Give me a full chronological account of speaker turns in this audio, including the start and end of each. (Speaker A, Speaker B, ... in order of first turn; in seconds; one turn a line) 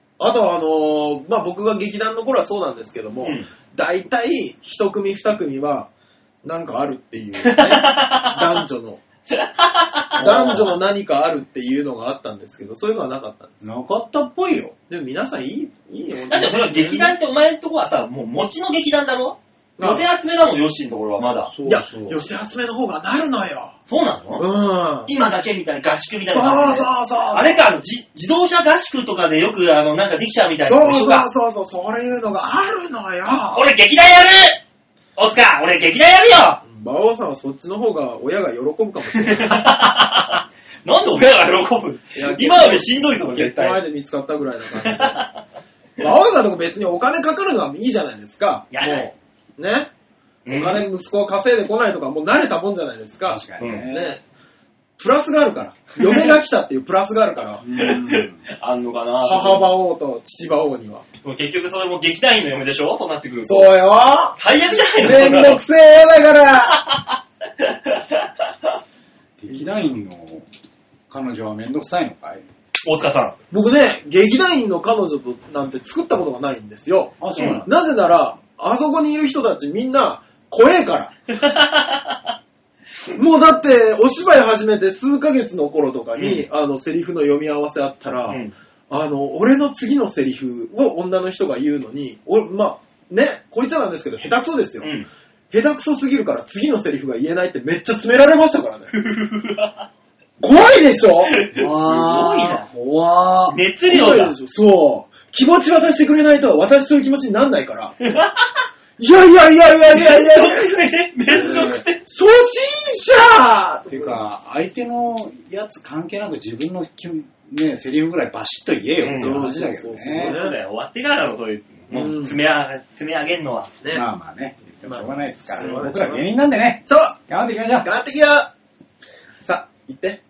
Speaker A: 0.2-5.9
Speaker B: 3.2-3.5
Speaker A: 6.4-9.0
Speaker B: 7.4-8.6
Speaker B: 9.3-10.8
Speaker A: 10.2-13.6
Speaker C: 13.6-14.7
Speaker A: 14.9-17.1
Speaker B: 16.3-21.5
Speaker A: 19.8-20.0
Speaker C: 21.5-22.2
Speaker A: 21.6-23.7
Speaker B: 23.9-24.4
Speaker A: 24.4-25.1
Speaker B: 25.1-31.3
Speaker A: 26.3-27.7
Speaker A: 30.6-33.7
Speaker B: 33.5-34.6
Speaker B: 35.2-36.6
Speaker A: 36.6-39.7
Speaker B: 39.2-43.8
Speaker A: 42.1-45.2
Speaker B: 44.8-45.4
Speaker A: 46.0-49.9
Speaker B: 48.7-49.1
Speaker B: 50.4-50.8
Speaker A: 50.5-54.2
Speaker C: 53.3-54.1
Speaker B: 53.6-53.9
Speaker A: 55.0-57.6
Speaker B: 56.0-56.3
Speaker C: 57.6-58.4
Speaker B: 57.7-59.7
Speaker A: 59.2-61.0
Speaker B: 61.2-63.7
Speaker A: 63.4-64.4
Speaker B: 64.4-65.6
Speaker A: 65.0-66.8
Speaker B: 66.9-68.3
Speaker C: 69.4-70.5
Speaker C: 71.1-72.4
Speaker B: 72.8-73.3
Speaker A: 73.5-81.1
Speaker C: 77.2-77.7
Speaker B: 81.3-82.2
Speaker A: 83.2-94.9
Speaker B: 86.2-86.4
Speaker B: 88.3-88.5
Speaker A: 95.5-98.9
Speaker B: 98.9-99.9
Speaker A: 100.4-101.3
Speaker B: 101.3-102.7
Speaker C: 101.5-103.6
Speaker B: 103.5-104.3
Speaker A: 103.9-108.0
Speaker B: 108.0-108.6
Speaker A: 109.0-114.1
Speaker B: 109.9-112.0
Speaker C: 113.9-120.3
Speaker B: 119.0-119.4
Speaker A: 119.1-120.6
Speaker B: 120.2-123.7
Speaker A: 121.9-122.3
Speaker C: 123.9-127.9
Speaker A: 124.8-126.2
Speaker A: 126.8-127.2
Speaker A: 127.8-128.5
Speaker A: 129.4-130.2